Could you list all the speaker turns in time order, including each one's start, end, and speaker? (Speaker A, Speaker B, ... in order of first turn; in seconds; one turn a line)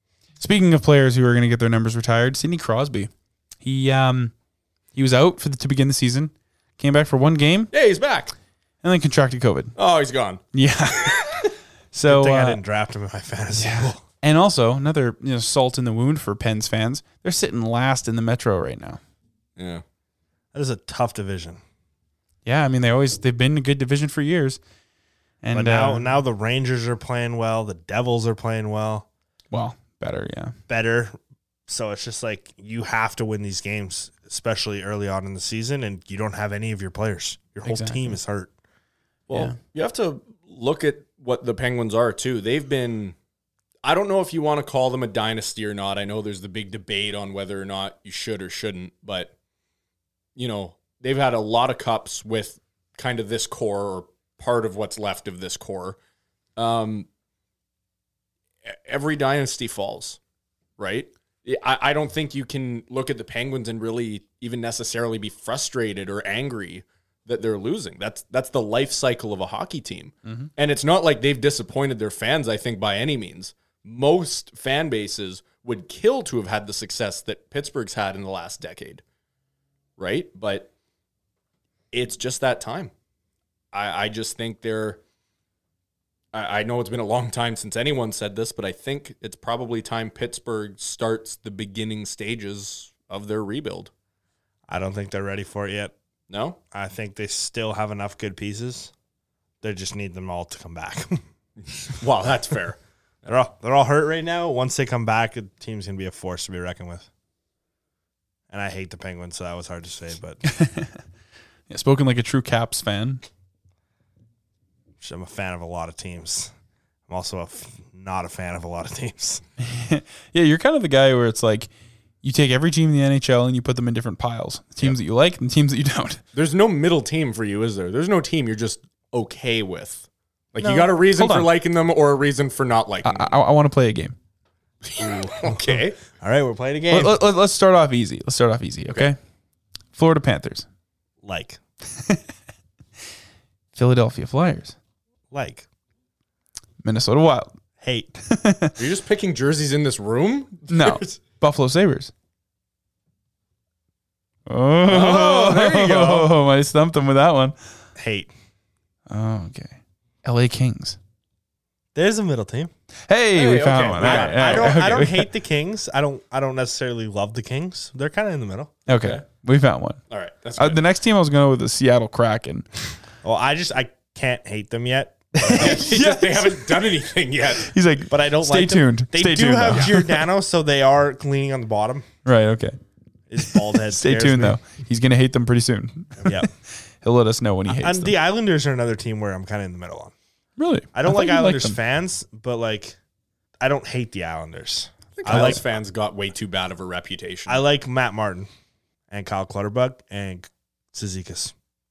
Speaker A: 0.4-3.1
Speaker A: 3.6-4.3
Speaker A: 4.9-7.7
Speaker B: 7.7-8.3
Speaker A: 8.8-9.7
Speaker B: 9.8-10.4
Speaker A: 10.5-12.6
Speaker B: 11.0-11.4
Speaker C: 12.0-14.0
Speaker A: 13.6-19.0
Speaker B: 19.6-19.8
Speaker C: 20.5-21.6
Speaker A: 22.4-24.6
Speaker A: 25.4-26.1
Speaker C: 25.5-29.1
Speaker A: 29.5-30.5
Speaker C: 30.7-31.1
Speaker C: 31.7-38.5
Speaker A: 37.6-38.1
Speaker B: 39.3-43.1
Speaker A: 39.3-39.6
Speaker B: 43.8-49.3
Speaker B: 50.4-56.0
Speaker B: 56.6-57.1
Speaker B: 58.6-60.2
Speaker B: 60.8-79.0
Speaker B: 80.0-80.7
Speaker B: 81.9-82.9
Speaker B: 83.7-85.0
Speaker B: 86.3-93.9
Speaker C: 94.7-95.9
Speaker B: 96.3-96.6
Speaker C: 96.7-98.9
Speaker C: 99.6-101.2
Speaker B: 101.8-102.8
Speaker C: 103.2-107.1
Speaker C: 108.5-110.4
Speaker A: 110.4-111.0
Speaker A: 111.7-113.2
Speaker C: 115.0-116.5
Speaker C: 117.1-119.4
Speaker A: 119.6-121.7
Speaker A: 122.2-126.2
Speaker B: 126.3-133.3
Speaker C: 130.6-130.9
Speaker A: 131.1-131.5
Speaker A: 133.0-134.2
Speaker B: 134.9-136.0
Speaker C: 135.0-137.2
Speaker A: 136.9-139.2
Speaker A: 139.9-140.7
Speaker C: 141.2-141.6
Speaker A: 141.9-142.2
Speaker A: 143.7-144.8
Speaker C: 145.3-145.7
Speaker A: 146.8-147.5
Speaker C: 147.8-148.2
Speaker A: 148.2-148.7
Speaker B: 148.8-151.1
Speaker A: 150.7-152.1
Speaker A: 154.5-157.5
Speaker B: 154.9-156.3
Speaker C: 158.0-158.3
Speaker A: 159.1-161.0
Speaker C: 161.9-162.7
Speaker A: 163.1-165.3
Speaker B: 163.3-165.0
Speaker C: 164.0-168.7
Speaker A: 168.9-170.0
Speaker B: 170.1-170.8
Speaker A: 170.6-172.7
Speaker C: 173.2-175.9
Speaker A: 175.4-176.6
Speaker B: 175.4-177.7
Speaker A: 177.6-180.2
Speaker C: 178.1-182.1
Speaker A: 182.2-182.8
Speaker C: 183.3-184.6
Speaker A: 183.4-188.2
Speaker C: 186.2-186.5
Speaker C: 187.7-190.1
Speaker A: 190.6-191.8
Speaker C: 190.9-192.9
Speaker C: 193.6-195.6
Speaker B: 195.2-197.6
Speaker A: 195.3-195.6
Speaker C: 197.5-198.5
Speaker C: 199.1-201.5